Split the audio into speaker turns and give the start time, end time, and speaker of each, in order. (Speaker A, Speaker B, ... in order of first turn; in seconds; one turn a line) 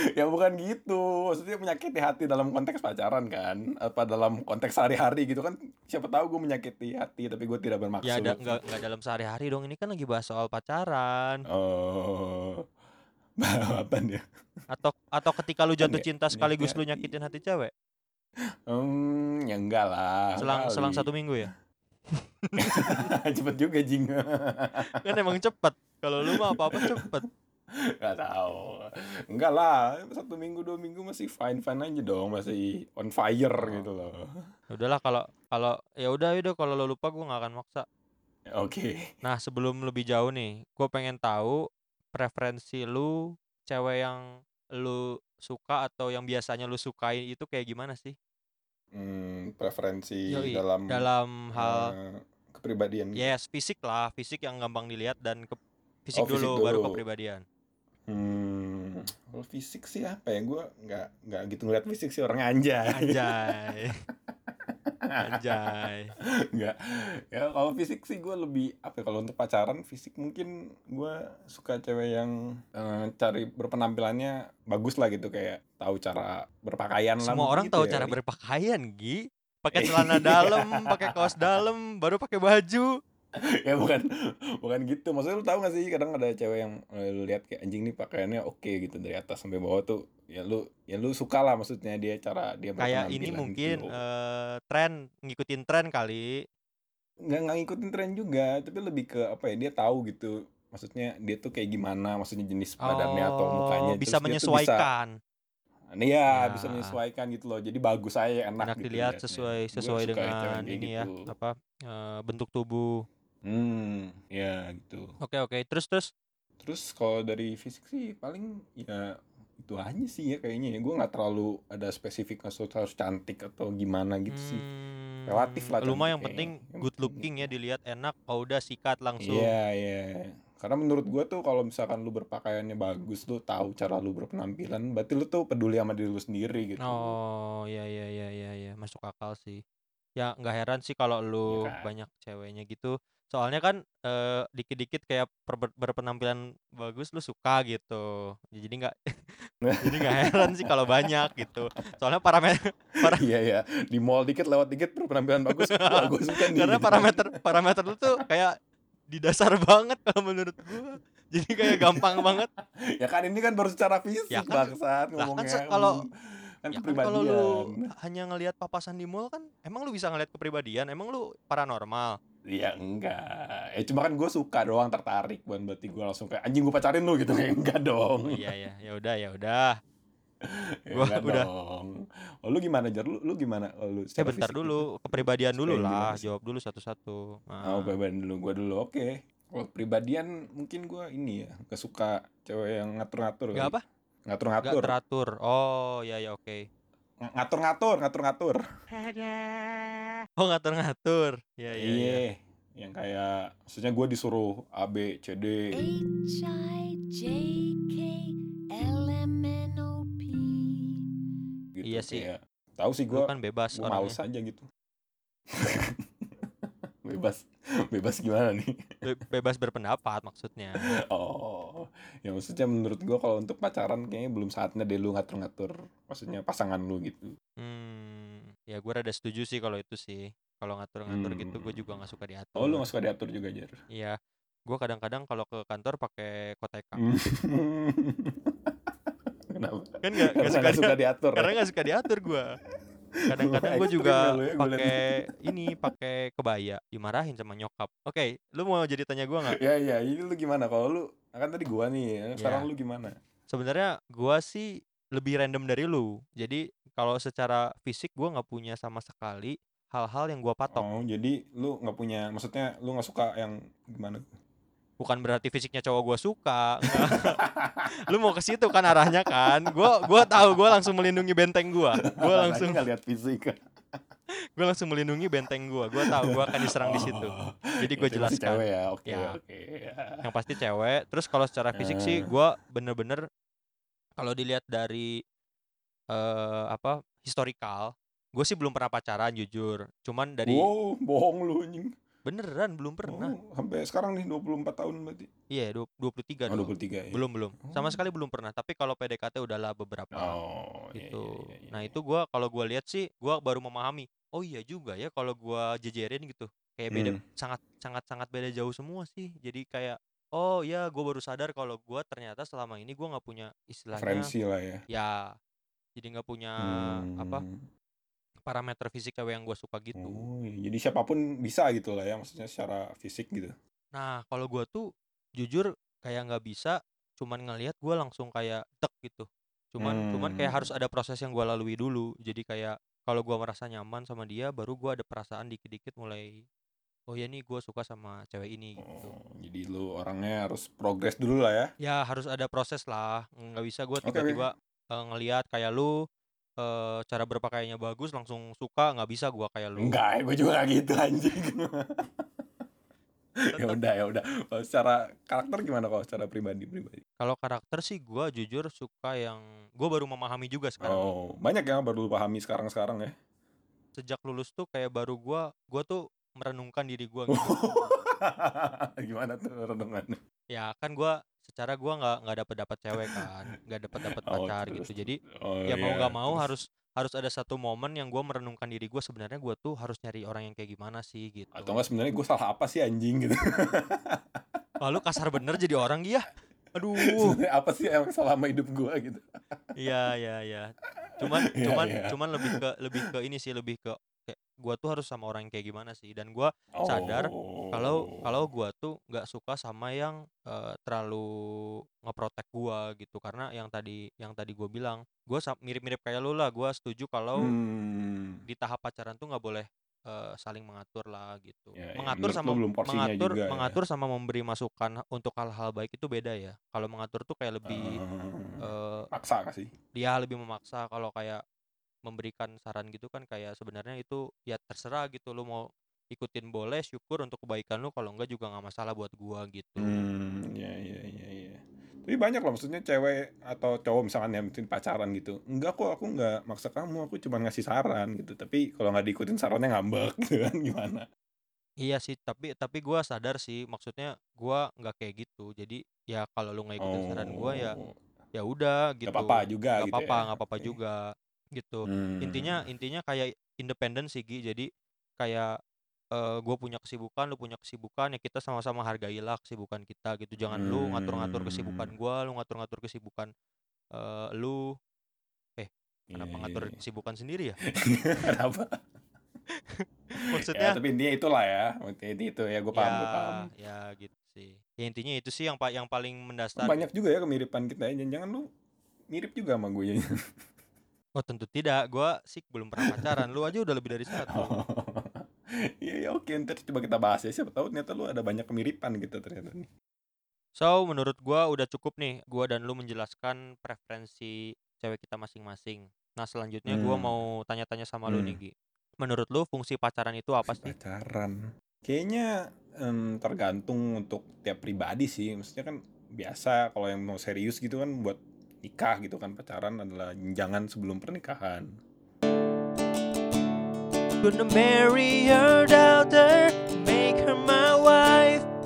Speaker A: 0.1-8.6
Speaker B: 8.0-11.4
Speaker A: 11.5-12.7
Speaker A: 13.4-14.2
Speaker B: 14.7-17.7
Speaker A: 15.8-17.1
Speaker A: 18.7-21.1
Speaker B: 20.4-21.5
Speaker B: 22.4-23.1
Speaker A: 22.6-25.3
Speaker B: 24.9-27.2
Speaker A: 26.2-27.1
Speaker A: 27.7-34.3
Speaker B: 34.7-37.9
Speaker A: 38.5-39.0
Speaker B: 39.2-41.6
Speaker B: 42.1-44.2
Speaker B: 44.8-48.1
Speaker A: 48.9-51.0
Speaker B: 50.3-51.9
Speaker A: 51.5-53.3
Speaker B: 53.1-57.4
Speaker A: 56.1-57.0
Speaker A: 58.1-63.5
Speaker B: 62.9-64.0
Speaker A: 64.5-65.7
Speaker B: 65.2-66.1
Speaker A: 66.5-78.2
Speaker B: 77.2-82.9
Speaker A: 79.7-81.6
Speaker A: 83.4-93.9
Speaker B: 92.8-96.4
Speaker A: 97.3-104.9
Speaker B: 102.8-105.1
Speaker A: 105.9-111.3
Speaker B: 106.3-107.0
Speaker B: 108.6-112.9
Speaker A: 113.4-115.2
Speaker B: 115.2-116.1
Speaker A: 116.6-124.6
Speaker B: 124.3-129.5
Speaker A: 125.3-127.5
Speaker A: 129.2-137.2
Speaker B: 136.8-139.6
Speaker B: 140.2-149.1
Speaker A: 141.5-141.8
Speaker A: 149.6-151.1
Speaker B: 149.8-153.2
Speaker A: 153.0-157.3
Speaker B: 155.5-158.5
Speaker B: 159.1-162.5
Speaker A: 161.7-166.1
Speaker B: 164.3-166.0
Speaker A: 166.6-167.9
Speaker B: 166.7-172.2
Speaker A: 172.4-178.4
Speaker B: 178.3-179.7
Speaker A: 180.4-186.3
Speaker B: 180.9-181.5
Speaker B: 184.2-187.9
Speaker A: 187.7-193.7
Speaker B: 193.5-193.8
Speaker A: 194.3-194.9
Speaker B: 194.6-196.7
Speaker A: 197.2-198.6
Speaker C: 199.0-199.8
Speaker B: 200.4-202.2
Speaker A: 201.7-205.8
Speaker C: 205.7-211.1
Speaker A: 211.8-214.7
Speaker B: 211.8-212.3
Speaker B: 213.1-214.2
Speaker A: 215.5-218.9
Speaker B: 219.0-220.9
Speaker A: 221.0-227.3
Speaker B: 227.6-232.8
Speaker A: 231.1-231.8
Speaker A: 232.6-233.8
Speaker B: 233.9-237.0
Speaker A: 237.0-241.6
Speaker B: 240.0-242.5
Speaker B: 243.3-249.6
Speaker A: 243.4-245.2
Speaker A: 249.4-253.2
Speaker B: 252.4-252.7
Speaker B: 253.5-260.8
Speaker A: 260.7-264.2
Speaker B: 265.0-267.4
Speaker A: 266.9-267.9
Speaker B: 268.0-272.8
Speaker A: 269.0-270.6
Speaker A: 272.0-274.0
Speaker B: 274.6-279.4
Speaker A: 276.0-280.2
Speaker B: 280.2-283.2
Speaker A: 281.7-282.3
Speaker B: 284.2-285.2
Speaker B: 286.1-290.7
Speaker A: 290.4-291.9
Speaker B: 292.2-293.3
Speaker A: 293.1-295.3
Speaker B: 295.5-300.4
Speaker A: 296.5-298.0
Speaker A: 300.1-301.9
Speaker B: 300.9-314.3
Speaker A: 306.9-307.2
Speaker A: 313.9-314.8
Speaker B: 314.9-315.2
Speaker B: 316.0-317.4
Speaker A: 316.6-317.6
Speaker B: 318.4-320.2
Speaker A: 320.0-323.5
Speaker B: 323.9-324.9
Speaker B: 325.4-336.4
Speaker A: 329.8-330.7
Speaker B: 337.1-339.1
Speaker A: 338.8-341.7
Speaker B: 341.8-345.9
Speaker A: 344.0-344.4
Speaker B: 346.6-350.0
Speaker A: 349.8-352.3
Speaker A: 353.5-357.0
Speaker B: 353.5-353.8
Speaker B: 357.2-361.1
Speaker A: 360.8-363.1
Speaker B: 363.9-367.9
Speaker A: 367.3-370.2
Speaker B: 370.5-375.2
Speaker A: 373.0-373.3
Speaker A: 374.2-376.5
Speaker B: 375.7-381.8
Speaker A: 381.5-384.4
Speaker B: 384.8-387.4
Speaker A: 387.0-389.6
Speaker B: 389.8-390.7
Speaker A: 391.2-392.5
Speaker B: 391.2-407.5
Speaker A: 396.8-398.3
Speaker A: 407.4-408.4
Speaker B: 408.5-418.0
Speaker A: 411.8-413.8
Speaker A: 417.7-419.7
Speaker B: 418.6-419.1
Speaker B: 419.9-421.4
Speaker B: 422.1-430.0
Speaker A: 429.8-441.1
Speaker B: 441.8-447.8
Speaker A: 446.8-447.9
Speaker B: 448.3-451.0
Speaker A: 449.1-450.8
Speaker B: 451.6-454.7
Speaker A: 451.9-452.6
Speaker B: 455.2-455.5
Speaker B: 456.1-463.3
Speaker A: 460.5-461.9
Speaker B: 463.9-464.6
Speaker B: 465.6-467.6
Speaker A: 466.1-466.8
Speaker A: 467.7-468.8
Speaker B: 469.7-470.8
Speaker A: 470.4-473.5
Speaker B: 472.7-476.8
Speaker A: 476.6-478.5
Speaker A: 479.1-480.0
Speaker B: 481.2-484.5
Speaker A: 482.8-483.2
Speaker A: 484.1-485.3
Speaker A: 485.8-489.7
Speaker B: 490.6-500.7
Speaker A: 496.7-497.1
Speaker A: 498.1-498.4
Speaker A: 500.4-511.7
Speaker B: 514.2-518.5